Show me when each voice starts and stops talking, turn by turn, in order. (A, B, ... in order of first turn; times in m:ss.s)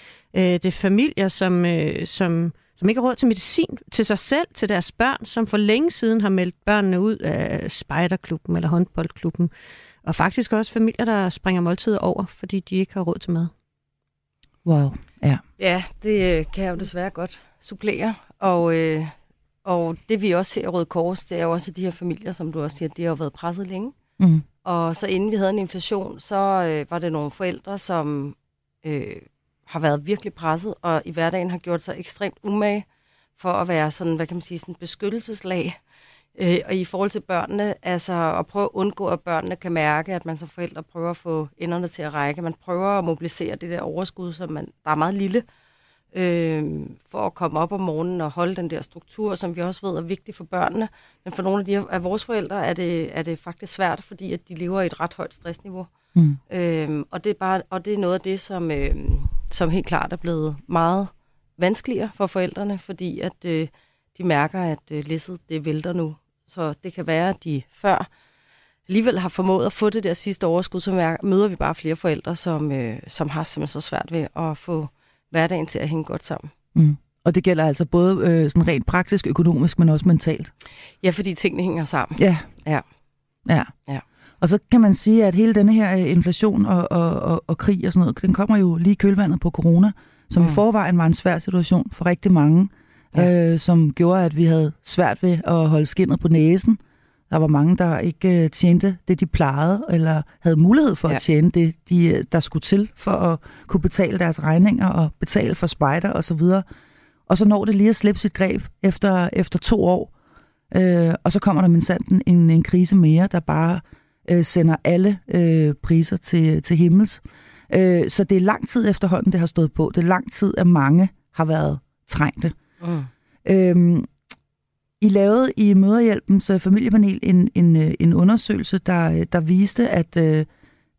0:00.3-0:09.5 A
0:10.0-0:13.5 A
0:14.6-0:15.4 B
0:15.6-0:19.1 C
0:19.6-0:23.9 C
0:24.2-0:24.4 B
0:24.6-0:32.8 C
0:33.4-0:35.8 C
0:36.4-0:45.4 C
0:46.1-0:55.9 C
0:56.5-1:08.1 C
1:08.9-1:16.5 C
1:16.7-1:20.5 B
1:21.0-1:22.8 C
1:22.2-1:22.5 B
1:23.4-1:23.7 B
1:24.4-1:36.8 B
1:37.3-1:46.6 B
1:47.3-1:50.1 B
1:50.7-2:02.6 B
2:02.8-2:03.1 C
2:03.4-2:04.1 B
2:05.0-2:10.5 B